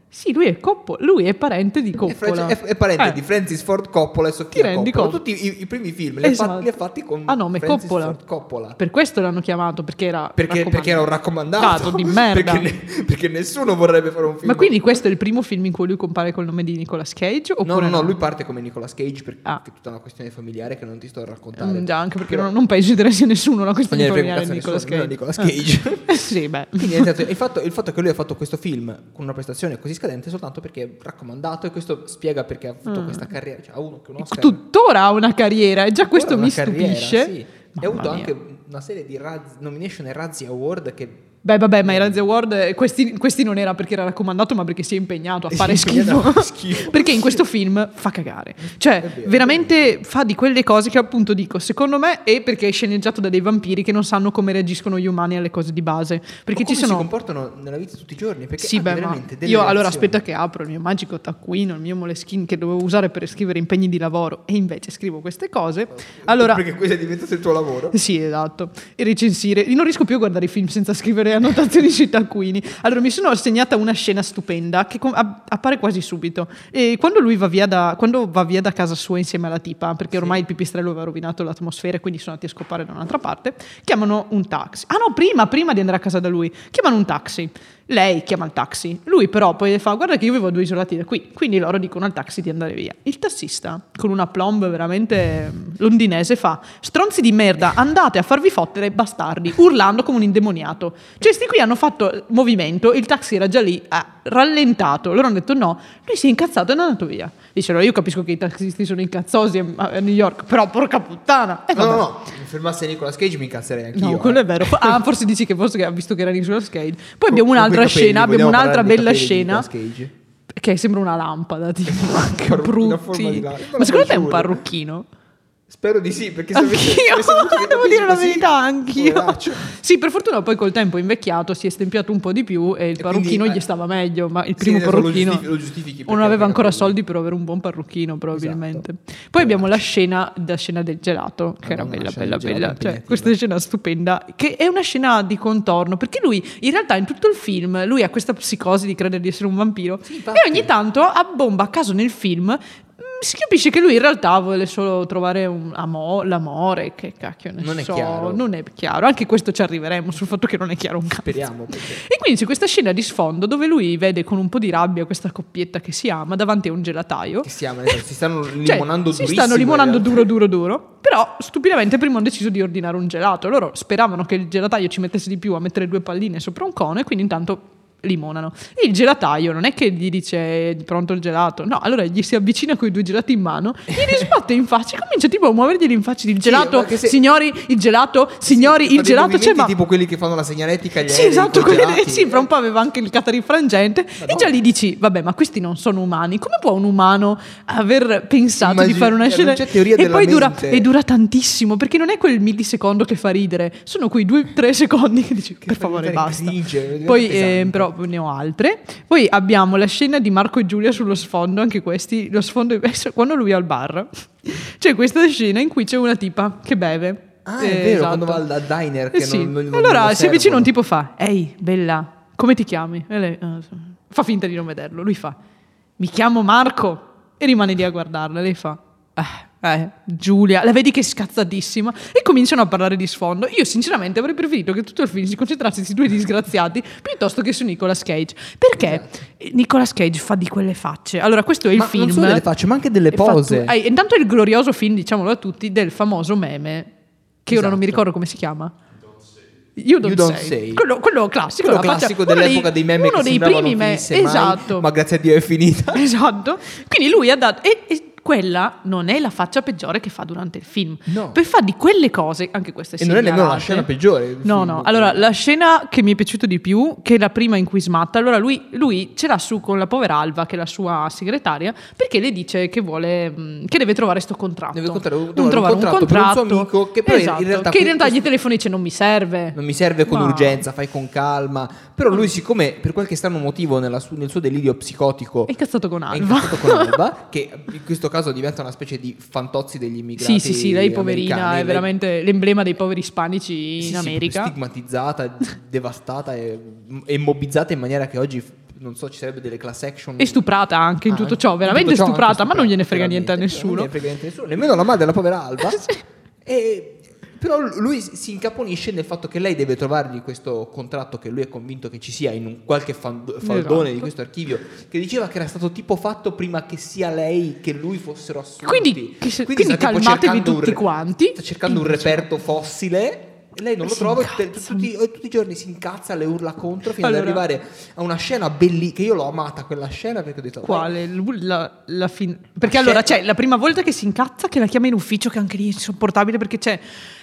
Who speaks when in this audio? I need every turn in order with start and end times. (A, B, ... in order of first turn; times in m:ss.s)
0:00.1-0:03.2 A
0:02.0-0:08.8 B
0:04.5-0:05.2 A
0:06.2-0:06.8 A
0:07.3-0:08.2 A
0:08.8-0:11.1 A
0:10.4-0:15.0 B
0:11.6-0:12.7 A
0:14.4-0:18.2 A
0:17.6-0:22.5 B
0:21.6-0:25.6 A
0:23.9-0:26.2 B
0:26.1-0:27.1 A
0:26.8-0:34.6 B
0:32.9-0:33.3 A
0:34.2-0:38.3 A
0:36.1-0:41.3 B
0:41.4-0:57.1 A
0:41.8-0:42.2 B
0:45.5-0:47.4 B
0:48.6-0:49.9 B
0:56.5-1:00.2 B
0:58.6-1:06.6 A
1:05.9-1:08.0 B
1:07.9-1:52.1 A
1:20.1-1:20.4 B
1:51.7-1:55.0 B
1:54.0-1:59.7 A
1:57.3-2:00.1 B
2:00.5-2:05.1 A
2:01.9-2:04.6 B
2:05.7-2:09.7 B
2:06.5-2:15.5 A
2:13.0-2:13.6 B
2:14.6-2:17.0 B
2:16.1-2:47.9 A
2:18.3-2:18.8 B
2:19.4-2:19.8 B
2:21.6-2:23.4 B
2:30.0-2:30.7 B
2:37.6-2:38.4 B
2:41.2-2:42.0 B
2:47.4-2:50.3 B
2:48.6-3:09.7 A
3:03.9-3:04.3 B
3:06.4-3:07.2 B
3:08.4-3:12.5 B
3:11.0-3:38.4 A
3:14.2-3:14.6 B
3:18.6-3:20.9 B
3:25.6-3:27.9 B
3:37.4-3:40.7 B
3:39.1-3:45.4 A
3:46.0-4:02.4 A
3:58.8-3:59.2 B
4:01.7-4:03.8 B
4:03.1-4:06.9 A
4:07.5-4:08.7 A
4:07.5-4:08.0 B
4:09.8-4:14.9 A
4:10.0-4:10.8 B
4:11.6-4:16.1 B
4:15.9-4:23.9 A
4:21.1-4:21.4 B
4:23.0-4:25.2 B
4:24.4-4:40.6 A
4:34.7-4:38.3 B
4:39.5-4:45.5 B
4:45.5-4:47.0 A
4:46.1-4:51.9 B
4:50.2-4:54.5 A
4:53.8-5:00.4 B
5:00.2-5:03.9 A
5:01.1-5:05.9 B
5:05.7-5:06.0 A
5:06.4-5:30.9 B
5:13.4-5:14.1 A
5:18.6-5:22.3 A
5:23.8-5:24.9 A
5:27.0-5:27.4 A
5:30.6-5:36.8 A
5:32.6-5:33.2 B